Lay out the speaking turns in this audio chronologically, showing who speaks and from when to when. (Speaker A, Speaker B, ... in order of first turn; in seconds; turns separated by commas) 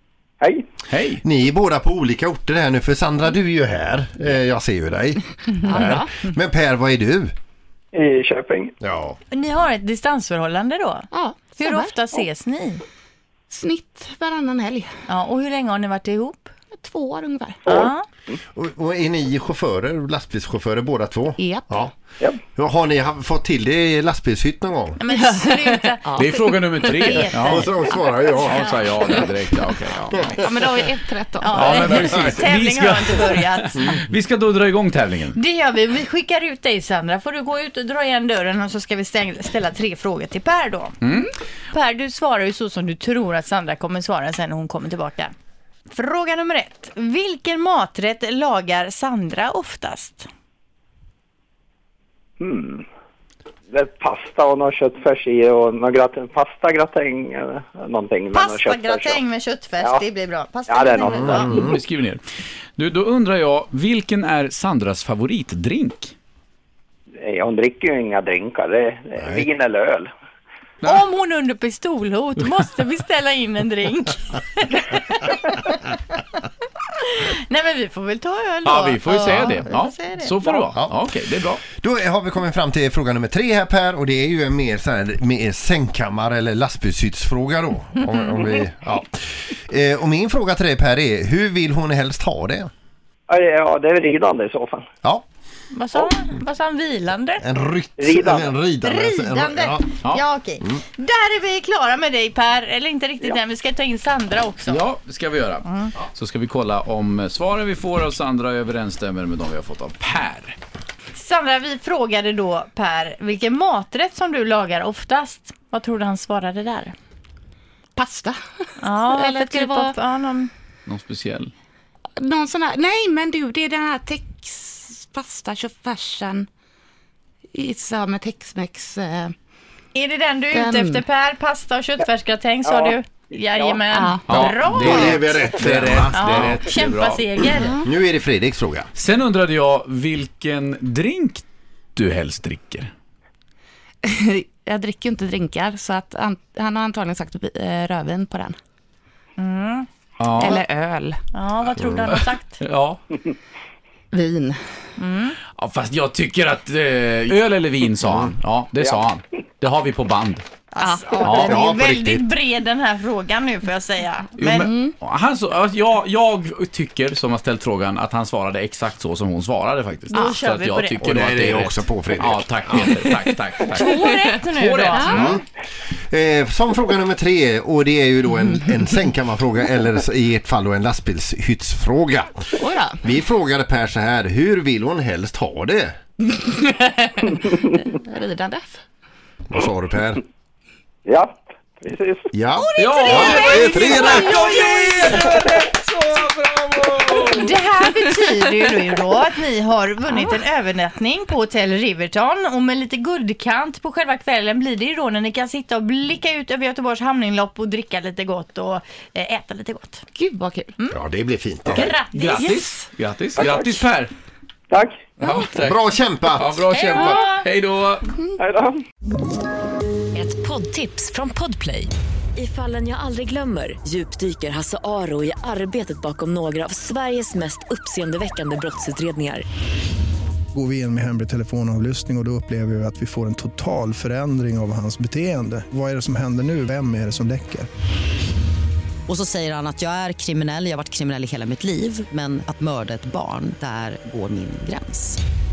Speaker A: 0.9-1.2, Speaker B: 1.2-7.3, Speaker C: 5.6-6.1, Speaker D: 7.9-8.7, Speaker B: 8.8-9.2, Speaker E: 9.3-11.1, Speaker C: 11.1-12.0, Speaker E: 11.6-12.8, Speaker C: 13.5-14.9, Speaker E: 15.1-16.5, Speaker C: 16.7-17.6, Speaker E: 17.7-18.0, Speaker B: 18.5-21.9, Speaker C: 21.4-21.8, Speaker B: 22.5-25.0, Speaker E: 25.0-27.7, Speaker C: 25.2-25.7, Speaker A: 26.2-27.7, Speaker B: 27.4-28.8, Speaker E: 28.3-28.8, Speaker A: 28.4-30.4, Speaker B: 30.1-30.5, Speaker C: 30.3-32.0, Speaker E: 31.4-33.8, Speaker A: 31.5-35.4, Speaker E: 35.3-41.0, Speaker A: 41.0-41.3, Speaker E: 41.7-45.3, Speaker E: 45.9-50.3, Speaker D: 52.4-52.8, Speaker D: 53.7-59.2, Speaker E: 58.3-61.7, Speaker D: 59.8-60.0, Speaker D: 60.7-61.7, Speaker B: 61.2-61.8, Speaker A: 61.5-62.2, Speaker A: 62.8-66.1, Speaker D: 67.2-70.1, Speaker E: 70.8-75.9, Speaker E: 77.0-80.6, Speaker A: 78.6-81.6, Speaker B: 80.7-81.0, Speaker B: 81.6-92.7, Speaker D: 93.3-94.8, Speaker E: 95.7-97.4, Speaker B: 97.4-99.9, Speaker D: 98.0-98.5, Speaker E: 98.8-104.8, Speaker A: 104.7-110.6, Speaker E: 111.1-116.9, Speaker C: 118.0-119.9, Speaker E: 118.8-120.5, Speaker A: 120.9-121.5, Speaker C: 122.2-126.5, Speaker C: 127.5-129.3, Speaker E: 129.9-135.4, Speaker C: 130.5-131.0, Speaker D: 132.6-133.8, Speaker C: 133.9-134.2, Speaker A: 134.3-137.2, Speaker B: 134.3-136.7, Speaker E: 136.1-137.8, Speaker C: 137.5-137.8, Speaker B: 137.8-138.9, Speaker A: 138.9-141.4, Speaker A: 141.9-142.9, Speaker C: 144.0-148.6, Speaker E: 149.4-149.9, Speaker A: 150.2-150.6, Speaker C: 150.4-151.2, Speaker E: 151.3-152.6, Speaker B: 151.8-152.1, Speaker A: 152.1-153.0, Speaker C: 154.1-154.6, Speaker E: 155.0-155.4, Speaker A: 155.5-160.4, Speaker E: 160.7-164.7, Speaker C: 160.8-161.4, Speaker B: 161.2-162.3, Speaker A: 161.2-161.6, Speaker A: 164.4-175.2, Speaker C: 164.5-164.9, Speaker C: 170.1-170.4, Speaker E: 170.1-171.0, Speaker B: 171.0-173.0, Speaker E: 173.7-175.4, Speaker C: 174.9-175.3, Speaker B: 175.1-175.4, Speaker B: 176.0-185.9, Speaker C: 182.6-183.0, Speaker C: 186.2-188.8, Speaker B: 189.5-190.2, Speaker D: 191.1-192.3, Speaker B: 192.3-194.5, Speaker E: 192.6-195.1, Speaker A: 192.8-197.5, Speaker E: 197.2-210.0, Speaker C: 210.2-210.7, Speaker B: 210.9-211.9, Speaker E: 211.7-212.7, Speaker A: 211.8-214.1, Speaker D: 213.4-213.8, Speaker D: 214.7-215.1, Speaker A: 215.2-218.1, Speaker B: 215.5-216.6, Speaker E: 216.7-217.4, Speaker D: 218.4-218.8, Speaker F: 220.1-229.4, Speaker G: 230.5-237.7, Speaker H: 239.1-245.2